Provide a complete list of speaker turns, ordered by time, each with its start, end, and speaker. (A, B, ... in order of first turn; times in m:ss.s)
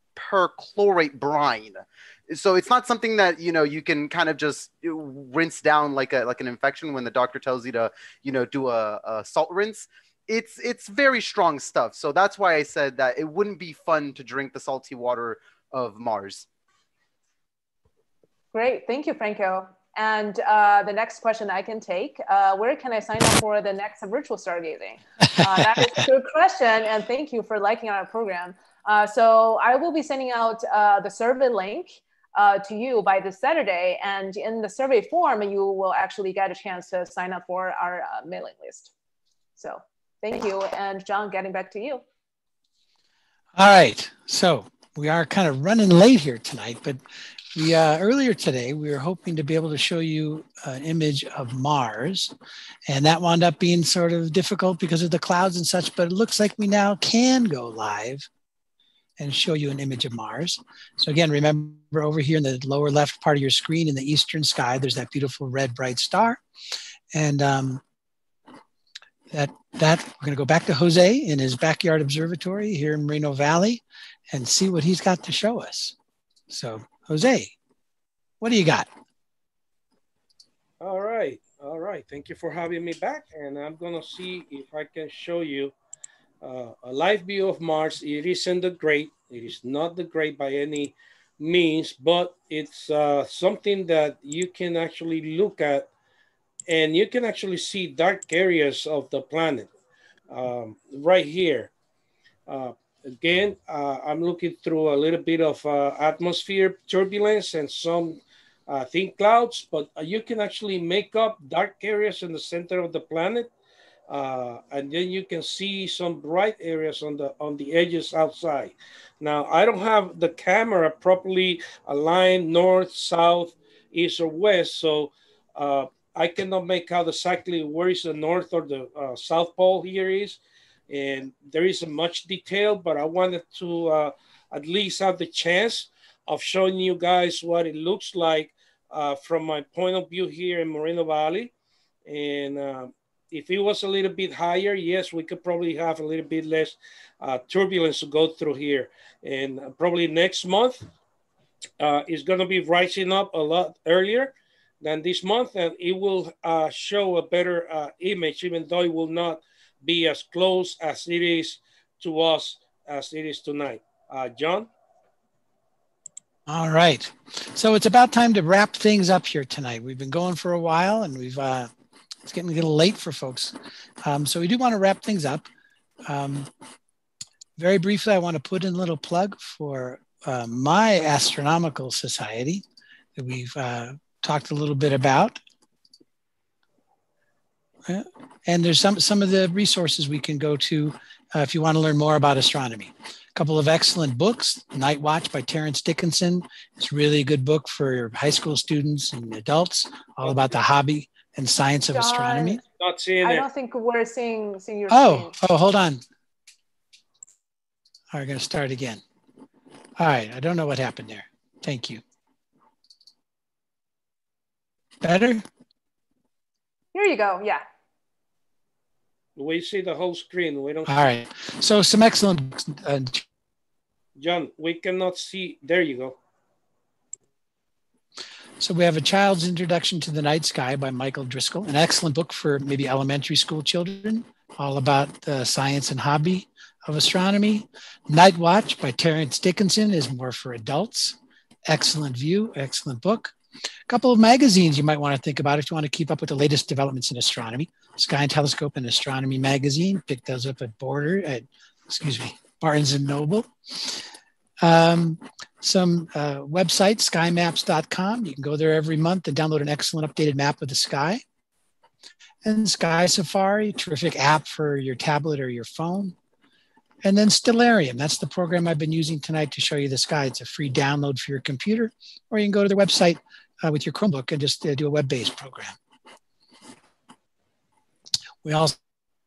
0:00.2-0:16.5 A
0:18.5-0:38.9 B
0:39.6-0:42.0 B
0:43.6-0:47.0 C
0:47.5-0:52.4 C
0:52.9-0:58.3 C
0:59.2-1:06.4 C
1:07.1-1:07.8 C
1:09.3-1:16.0 C
1:16.5-1:17.6 C
1:18.4-1:18.9 C
1:20.8-1:25.7 D
1:26.4-1:35.9 D
1:36.7-1:39.7 D
1:40.3-1:41.7 D
1:42.5-1:53.5 D
1:54.1-2:10.4 D
2:10.9-2:21.5 D
2:22.1-2:30.9 D
2:31.8-2:44.7 D
2:46.5-2:51.7 C
2:52.2-2:55.5 C
2:56.1-2:56.5 C
2:57.6-3:02.6 C
3:03.2-3:05.4 C
3:07.9-3:22.6 C
3:20.2-3:20.5 D
3:21.9-3:22.6 B
3:22.8-3:23.5 D
3:23.2-3:25.3 B
3:24.9-3:26.0 C
3:28.1-3:29.0 C
3:30.0-3:32.0 C
3:35.0-3:35.4 C
3:36.9-3:37.6 B
3:39.4-3:40.9 D
3:40.9-3:43.2 C
3:44.2-3:46.2 D
3:48.6-4:03.4 C
4:03.9-4:14.0 C
4:14.6-4:21.2 C
4:22.4-4:26.2 C
4:27.0-4:35.8 C
4:38.4-4:38.8 C